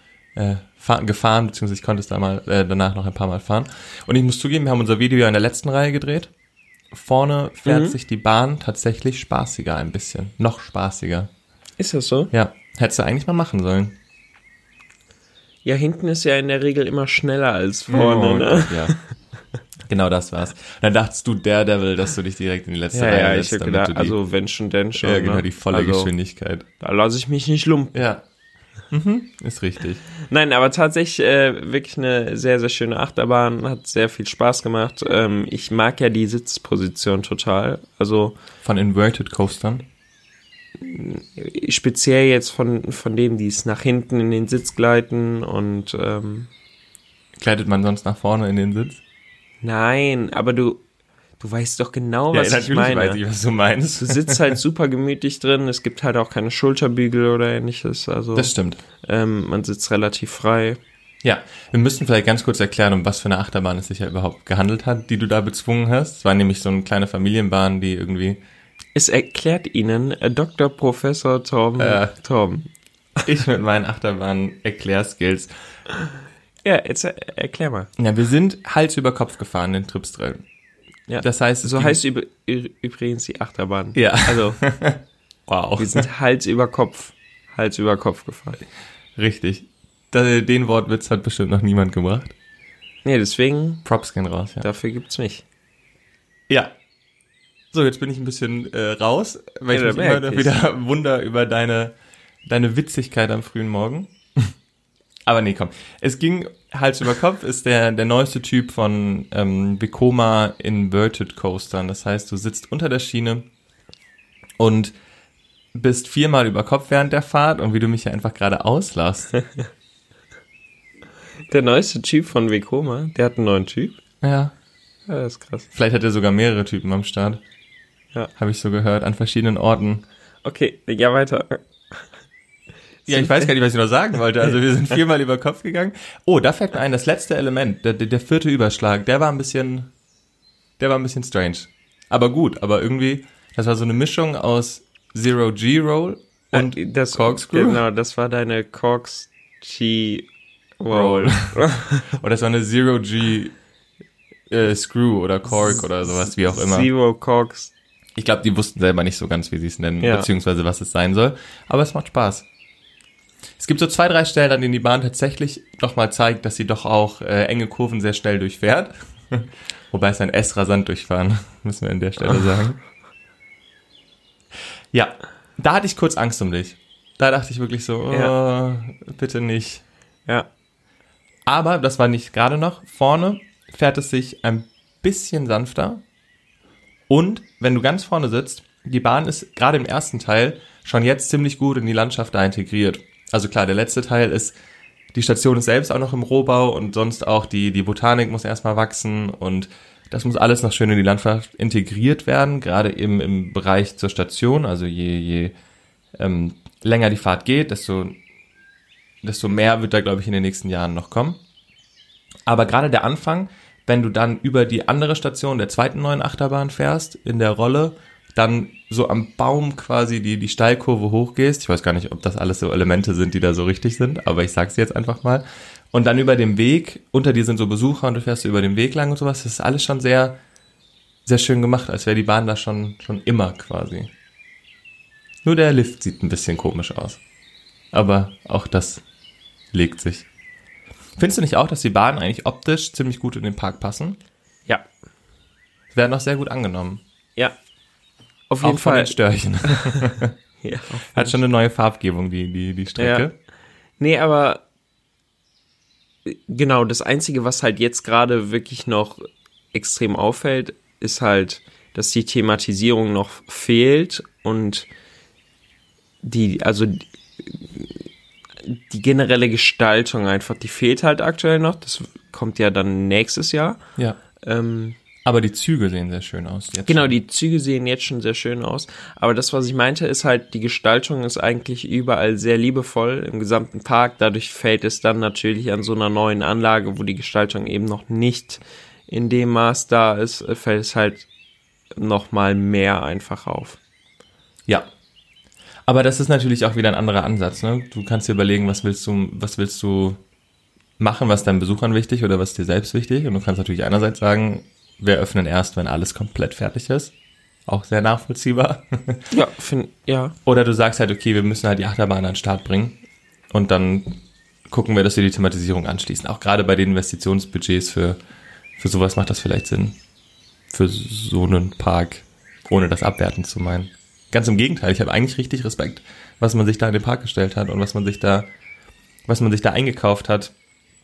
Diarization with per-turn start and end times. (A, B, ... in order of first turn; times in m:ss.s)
0:00.3-0:06.3 A
0:06.9-0:11.3 A
0:07.6-0:08.0 B
0:11.8-0:12.3 B
0:12.3-0:14.0 A
0:15.6-0:19.0 B
0:17.9-0:19.0 A
0:19.9-0:24.2 A
0:22.9-0:26.1 B
0:25.0-0:26.6 A
0:26.8-0:28.0 B
0:27.9-0:28.2 A
0:28.9-0:30.0 A
0:30.3-0:38.4 B
0:38.6-0:39.8 A
0:40.8-0:46.5 B
0:47.4-0:49.0 A
0:49.6-0:50.8 B
0:51.4-0:53.2 B
0:52.3-0:54.5 A
0:54.0-1:00.8 B
0:58.3-0:58.8 A
1:01.2-1:08.4 A
1:08.9-1:12.7 B
1:11.8-1:12.1 A
1:13.2-1:15.5 A
1:16.6-1:17.9 B
1:18.0-1:20.4 A
1:21.1-1:24.6 B
1:21.2-1:22.0 A
1:23.9-1:26.0 A
1:25.8-1:28.6 B
1:29.2-1:32.3 A
1:33.0-1:33.8 B
1:33.8-1:34.6 A
1:34.6-1:35.4 B
1:37.7-1:41.9 A
1:39.7-1:40.5 B
1:42.4-1:44.1 A
1:45.3-1:53.5 A
1:54.6-1:54.9 A
1:55.7-1:59.3 A
2:01.5-2:04.0 B
2:04.2-2:04.5 A
2:05.1-2:05.7 B
2:05.7-2:07.4 A
2:08.4-2:10.0 A
2:10.4-2:12.1 B
2:13.1-2:13.5 B
2:13.1-2:19.9 A
2:20.8-2:27.8 A
2:26.5-2:30.3 B
2:30.8-2:32.0 B
2:30.9-2:33.6 A
2:34.5-2:36.9 A
2:36.2-2:37.7 B
2:38.2-2:42.4 A
2:40.0-2:40.3 B
2:43.6-2:52.8 A
2:54.9-2:59.8 A
3:01.4-3:06.0 A
3:07.1-3:14.6 A
3:15.1-3:25.5 A
3:26.2-3:28.2 A
3:29.2-3:31.4 A
3:32.4-3:50.4 A
3:51.2-3:54.1 A
3:55.4-3:57.2 A
3:57.9-3:59.0 A
3:59.7-4:00.2 A
4:01.2-4:04.2 A
4:05.9-4:07.0 A
4:08.5-4:10.0 B
4:08.6-4:10.3 A
4:10.6-4:11.4 B
4:11.1-4:13.3 A
4:13.0-4:13.3 B
4:14.0-4:14.6 B
4:16.2-4:24.9 B
4:26.2-4:28.0 B
4:28.6-4:33.8 B
4:34.4-4:35.0 B
4:35.2-4:37.1 A
4:36.8-4:51.3 B
4:52.0-4:53.8 B
4:55.9-5:00.2 A
5:01.0-5:07.1 A
5:07.7-5:09.2 A
5:09.3-5:10.3 B
5:10.4-5:13.0 A
5:13.5-5:18.2 A
5:18.8-5:20.0 A
5:20.7-5:28.5 A
5:29.3-5:30.5 A